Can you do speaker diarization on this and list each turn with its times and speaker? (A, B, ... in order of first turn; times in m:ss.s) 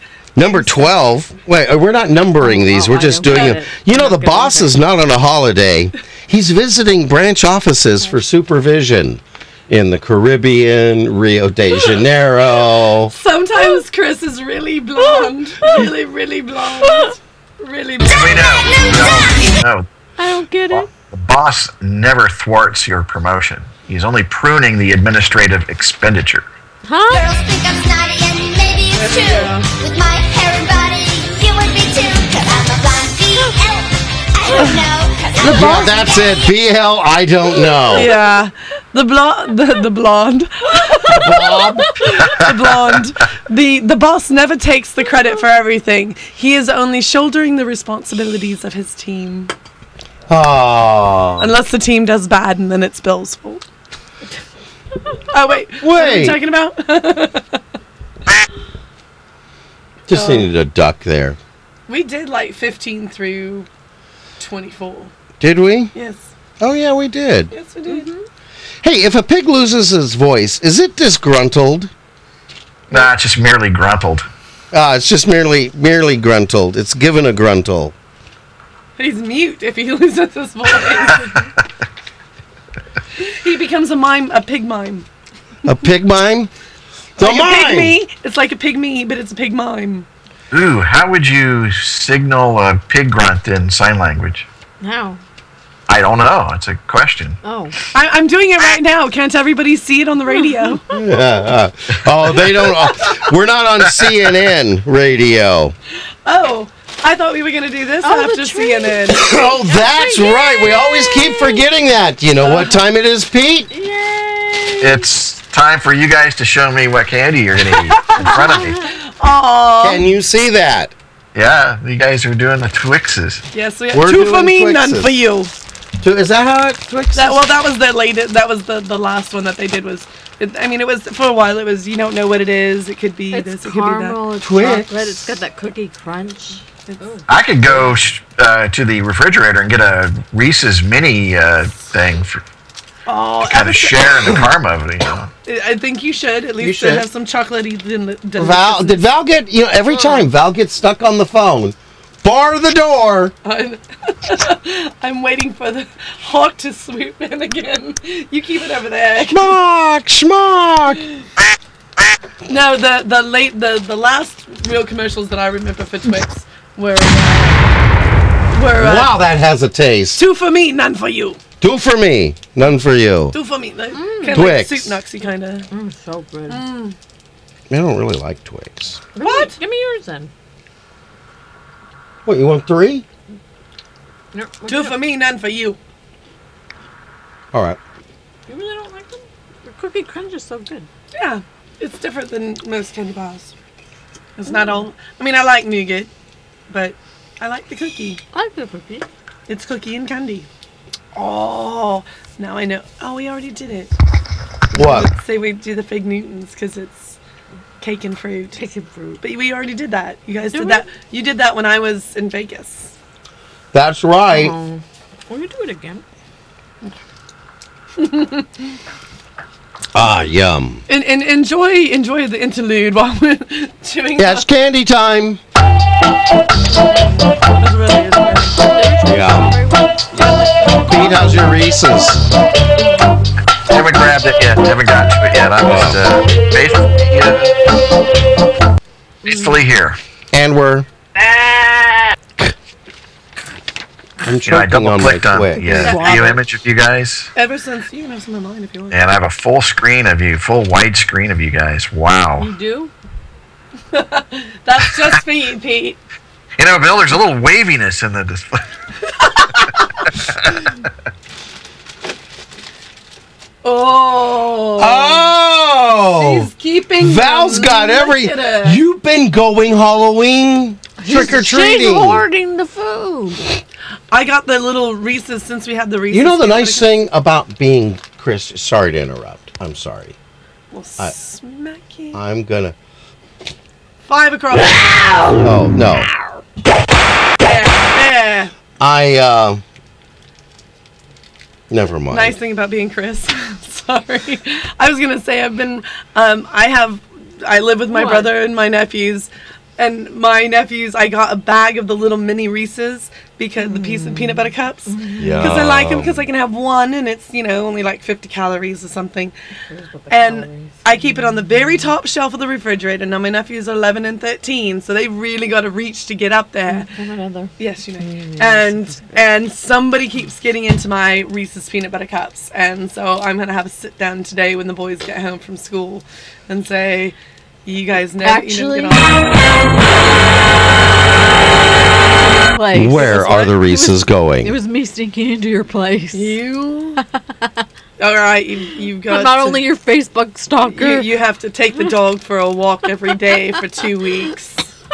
0:00.4-0:13.1 A
0:02.4-0:04.7 B
0:03.3-0:03.6 C
0:13.1-0:18.7 C
0:15.0-0:15.9 B
0:16.8-0:17.2 B
0:18.1-0:19.9 D
0:18.7-0:19.3 B
0:20.2-0:20.9 B
0:20.7-0:26.4 D
0:26.8-0:27.3 B
0:27.1-0:36.6 E
0:29.0-0:29.7 C
0:35.4-0:38.1 A
0:35.6-0:35.9 B
0:37.9-0:49.5 C
0:41.1-0:42.3 A
0:50.3-0:51.5 A
0:51.4-0:53.6 C
0:55.3-0:57.6 C
0:55.8-0:56.4 A
1:00.1-1:01.4 A
1:00.1-1:00.5 C
1:01.9-1:03.7 C
1:04.4-1:05.1 C
1:05.4-1:05.9 A
1:05.9-1:06.3 C
1:06.6-1:07.5 A
1:07.5-1:08.1 C
1:07.9-1:08.2 B
1:08.8-1:11.9 A
1:12.9-1:14.3 D
1:14.7-1:17.9 A
1:19.0-1:21.4 C
1:23.2-1:25.1 C
1:25.7-1:26.5 A
1:27.2-1:28.0 A
1:27.2-1:30.1 C
1:30.5-1:34.5 D
1:34.8-1:35.2 B
1:35.9-1:37.4 D
1:37.4-1:37.8 B
1:37.9-1:40.9 C
1:40.3-1:40.8 B
1:40.9-1:45.8 A
1:46.2-1:49.2 C
1:48.0-1:51.6 B
1:49.1-1:53.7 A
1:52.4-1:52.7 C
1:53.7-1:55.1 B
1:54.8-1:58.8 D
1:58.1-1:58.9 B
1:58.9-2:00.1 C
1:59.8-2:00.9 A
2:01.4-2:03.4 D
2:03.5-2:05.5 C
2:03.9-2:05.1 A
2:06.0-2:07.4 A
2:07.2-2:14.2 C
2:13.3-2:17.3 B
2:14.4-2:15.3 A
2:16.9-2:17.1 C
2:17.3-2:22.4 D
2:23.1-2:24.1 C
2:23.4-2:25.3 D
2:25.4-2:29.0 C
2:26.6-2:27.1 A
2:28.4-2:33.3 A
2:33.4-2:39.6 C
2:39.3-2:41.0 A
2:42.5-2:47.6 C
2:48.5-2:49.2 C
2:48.8-2:50.2 A
2:50.2-2:51.4 C
2:51.6-2:53.4 A
2:53.3-2:55.7 C
2:53.9-2:54.5 B
2:54.3-2:55.0 A
2:55.7-2:56.6 B
2:56.5-2:57.0 C
2:57.7-2:59.0 A
2:59.2-3:00.3 B
2:59.2-2:59.6 C
3:02.3-3:03.0 A
3:04.3-3:05.0 B
3:04.7-3:05.8 C
3:07.5-3:07.8 A
3:08.5-3:10.9 B
3:11.1-3:13.5 C
3:14.4-3:16.1 C
3:14.5-3:14.9 B
3:16.7-3:18.2 C
3:18.3-3:19.1 B
3:19.5-3:20.5 C
3:21.2-3:23.9 C
3:24.7-3:25.1 A
3:24.7-3:27.2 C
3:27.8-3:28.7 C
3:28.6-3:29.2 B
3:29.2-3:32.9 C
3:30.5-3:30.9 B
3:33.7-3:34.6 A
3:34.3-3:36.0 B
3:38.0-3:38.5 C
3:39.9-3:40.8 A
3:40.9-3:44.5 C
3:44.2-3:45.4 A
3:47.4-3:48.7 C
3:48.7-3:50.0 B
3:49.0-3:49.6 A
3:50.1-3:51.3 C
3:50.8-3:52.2 A
3:52.8-3:53.1 B
3:53.7-3:57.6 D
3:55.6-3:56.0 A
3:59.2-3:59.6 B
3:59.2-4:00.0 D
4:00.3-4:00.9 A
4:04.2-4:06.0 A
4:04.4-4:07.3 D
4:05.6-4:06.4 B
4:05.7-4:06.4 C
4:07.4-4:09.0 C
4:08.9-4:12.5 D
4:12.4-4:12.9 B
4:13.9-4:16.0 C
4:16.6-4:18.6 D
4:23.6-4:25.3 C
4:24.8-4:32.2 A
4:26.2-4:28.8 C
4:31.0-4:33.5 B
4:34.1-4:36.9 C
4:36.1-4:40.2 A
4:40.7-4:42.2 C
4:42.1-4:42.8 A
4:44.1-4:45.4 C
4:45.4-4:46.1 A
4:47.4-4:48.5 C
4:48.8-4:49.6 A
4:51.7-4:52.4 A
4:52.1-5:09.3 C
4:57.9-4:58.3 B
5:03.6-5:05.5 B
5:05.2-5:06.3 A
5:09.7-5:11.8 B
5:10.1-5:16.9 C
5:16.7-5:19.3 B
5:17.6-5:29.6 C
5:28.2-5:29.2 B
5:32.2-5:36.4 B
5:32.7-5:34.6 A
5:32.8-5:33.5 C
5:36.1-5:37.0 C
5:37.0-5:37.6 B
5:38.0-5:39.6 C
5:39.1-5:41.1 B
5:40.7-5:44.7 C